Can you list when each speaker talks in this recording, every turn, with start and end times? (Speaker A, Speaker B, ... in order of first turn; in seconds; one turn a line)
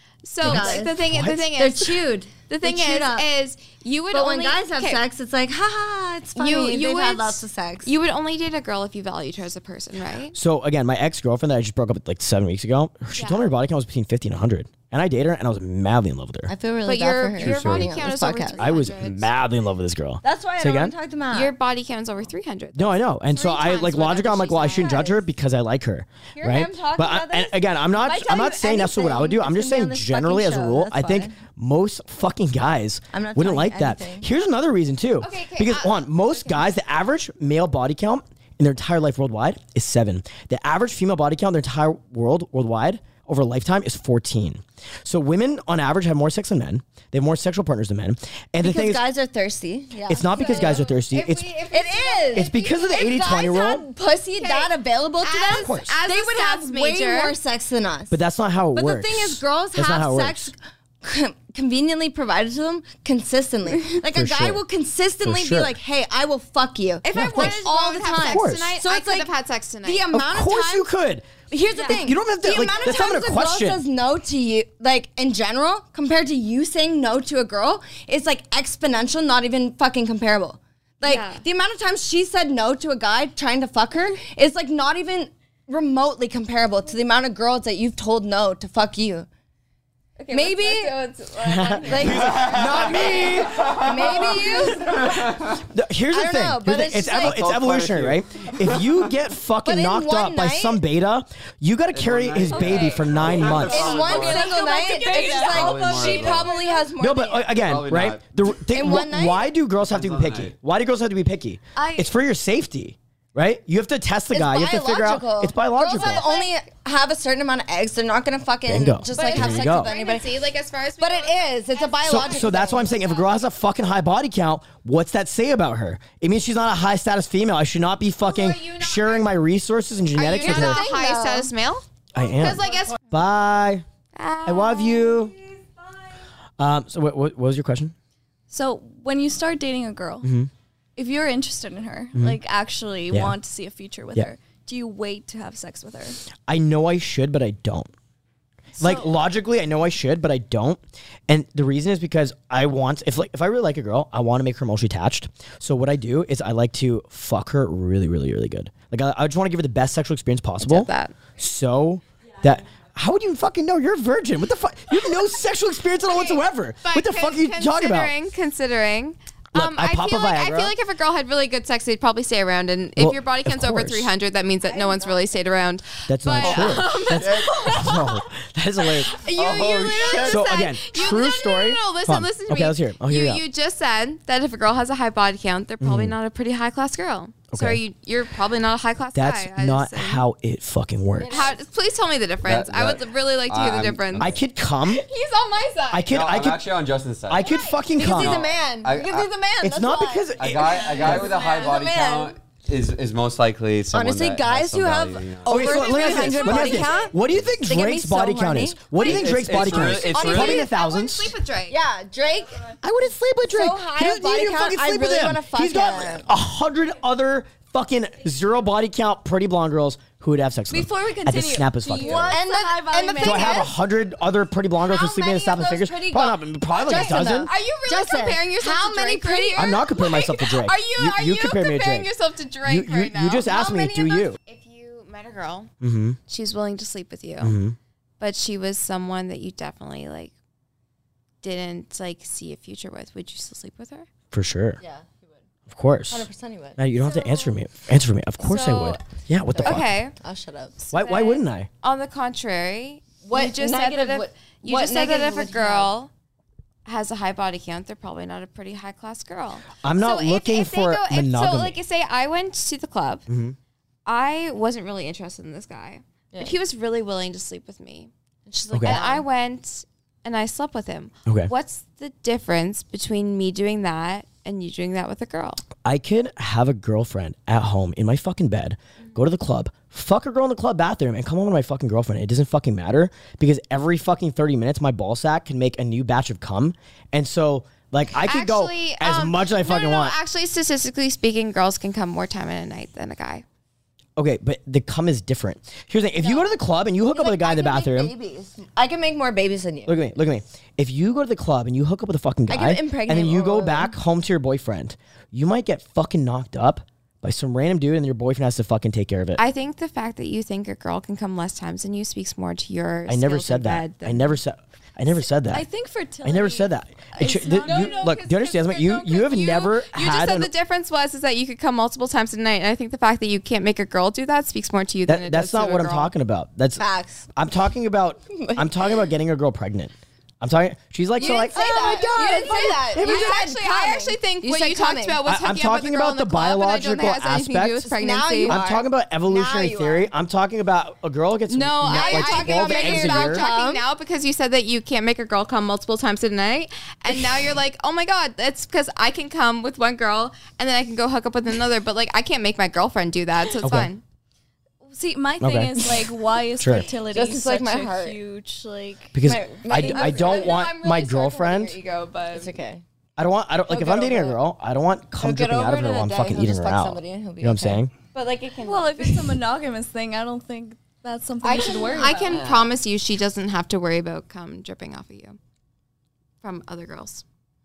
Speaker A: 0.2-5.0
Speaker B: 0.4-3.3
Speaker C: 0.4-1.4
Speaker B: 4.1-7.9
Speaker A: 6.4-10.3
Speaker C: 10.3-16.5
Speaker A: 13.2-13.5
Speaker B: 16.5-18.7
Speaker A: 16.9-19.3
Speaker D: 17.4-17.8
Speaker C: 17.5-17.8
Speaker C: 18.6-20.9
Speaker B: 20.2-21.5
Speaker A: 21.3-25.1
Speaker C: 22.8-49.0
Speaker B: 24.7-25.2
Speaker B: 26.4-31.4
Speaker B: 33.1-34.3
Speaker A: 35.2-36.7
Speaker B: 48.6-50.9
Speaker C: 50.1-51.5
Speaker A: 50.2-53.6
Speaker B: 51.7-58.2
Speaker C: 52.4-53.8
Speaker A: 54.4-57.4
Speaker C: 55.5-55.9
Speaker C: 58.1-60.5
Speaker B: 58.7-69.3
Speaker C: 64.0-64.6
Speaker C: 65.2-65.8
Speaker A: 67.0-70.1
Speaker C: 67.1-67.6
Speaker C: 68.1-68.7
Speaker B: 69.8-70.9
Speaker C: 70.1-71.3
Speaker B: 71.5-89.3
Speaker C: 71.8-73.8
Speaker A: 81.0-81.5
Speaker A: 90.2-93.3
Speaker B: 90.3-91.0
Speaker C: 91.4-93.7
Speaker B: 91.8-92.5
Speaker D: 92.2-94.3
Speaker B: 93.7-95.1
Speaker A: 94.3-95.0
Speaker D: 95.0-95.5
Speaker C: 95.5-103.9
Speaker B: 96.1-97.5
Speaker D: 97.1-99.0
Speaker B: 99.6-100.8
Speaker D: 101.9-104.6
Speaker A: 102.5-106.6
Speaker B: 103.7-107.5
Speaker E: 104.3-105.8
Speaker D: 105.1-106.6
Speaker C: 107.0-116.2
Speaker D: 107.5-108.3
Speaker B: 108.7-109.5
Speaker D: 109.8-110.5
Speaker A: 111.8-112.1
Speaker B: 114.3-120.3
Speaker A: 115.8-116.5
Speaker C: 118.7-119.9
Speaker A: 119.1-123.3
Speaker B: 121.0-123.0
Speaker C: 122.0-130.8
Speaker A: 128.2-129.4
Speaker A: 130.2-133.0
Speaker B: 130.3-131.5
Speaker C: 132.1-133.8
Speaker A: 134.2-135.4
Speaker C: 134.4-135.3
Speaker C: 136.6-137.9
Speaker E: 138.5-140.3
Speaker C: 140.2-140.5
Speaker E: 141.0-146.2
Speaker C: 146.5-147.9
Speaker E: 148.8-149.1
Speaker C: 148.8-168.1
Speaker A: 160.6-161.2
Speaker A: 166.1-178.2
Speaker C: 169.5-170.7
Speaker C: 173.0-174.1
Speaker B: 174.7-175.2
Speaker C: 176.1-179.1
Speaker D: 176.3-178.0
Speaker A: 179.0-190.2
Speaker D: 179.3-180.4
Speaker C: 180.3-183.4
Speaker C: 185.8-186.2
Speaker C: 187.5-187.8
Speaker C: 189.1-191.4
Speaker B: 191.2-191.6
Speaker A: 191.3-194.3
Speaker D: 192.4-194.4
Speaker C: 194.2-195.0
Speaker A: 194.9-196.1
Speaker C: 195.9-196.7
Speaker D: 196.1-199.3
Speaker C: 197.3-198.4
Speaker B: 197.4-202.4
Speaker C: 199.6-201.3
Speaker D: 200.4-207.4
Speaker A: 200.8-201.7
Speaker B: 203.9-208.9
Speaker C: 205.4-211.3
Speaker A: 205.5-207.1
Speaker D: 209.0-210.7
Speaker A: 210.0-211.8
Speaker B: 210.2-210.7
Speaker B: 211.7-212.7
Speaker C: 212.8-222.4
Speaker B: 213.4-216.3
Speaker E: 220.7-223.7
Speaker B: 222.2-223.7
Speaker C: 223.2-227.5
Speaker B: 224.8-229.9
Speaker A: 226.8-235.7
Speaker C: 229.6-232.1
Speaker C: 232.7-234.4
Speaker B: 233.5-234.1
Speaker C: 235.8-236.2
Speaker A: 236.3-237.6
Speaker C: 237.4-237.8
Speaker A: 238.2-240.3
Speaker A: 241.4-244.1
Speaker C: 244.3-244.8
Speaker B: 244.8-245.3
Speaker C: 245.7-246.3
Speaker B: 246.1-246.8
Speaker C: 246.8-249.9
Speaker A: 248.4-249.0
Speaker B: 249.5-250.8
Speaker A: 249.6-250.1
Speaker A: 250.8-256.1
Speaker C: 250.9-251.7
Speaker B: 253.3-255.9
Speaker A: 256.9-263.3
Speaker C: 259.8-261.8
Speaker C: 263.3-263.6
Speaker A: 264.1-268.1
Speaker B: 268.5-269.2
Speaker C: 268.7-269.0
Speaker A: 268.8-275.6
Speaker C: 275.8-290.2
Speaker A: 288.2-293.4
Speaker C: 294.2-298.1
Speaker B: 296.2-296.5
Speaker B: 297.1-300.0
Speaker C: 299.9-309.4
Speaker B: 302.5-303.9
Speaker A: 309.4-314.4
Speaker C: 313.1-315.7
Speaker E: 315.5-318.2
Speaker C: 316.2-320.5
Speaker A: 317.5-326.1
Speaker C: 325.1-326.8
Speaker B: 326.8-327.3
Speaker C: 327.4-333.4
Speaker B: 328.3-328.9
Speaker B: 331.2-335.2
Speaker A: 331.2-338.6
Speaker C: 335.3-337.9
Speaker B: 337.9-340.1
Speaker C: 338.4-343.4
Speaker A: 341.5-354.0
Speaker B: 341.9-343.8
Speaker C: 353.6-353.9
Speaker E: 354.9-359.2
Speaker C: 355.4-355.9
Speaker C: 356.6-356.9
Speaker B: 356.9-358.2
Speaker C: 359.1-361.8
Speaker B: 359.2-360.7
Speaker A: 359.9-362.5
Speaker B: 362.3-362.8
Speaker C: 363.2-367.9
Speaker B: 363.7-364.4
Speaker B: 365.2-367.8
Speaker A: 368.1-368.8
Speaker E: 368.6-372.4
Speaker B: 371.4-372.7
Speaker A: 371.9-375.4
Speaker A: 376.4-377.2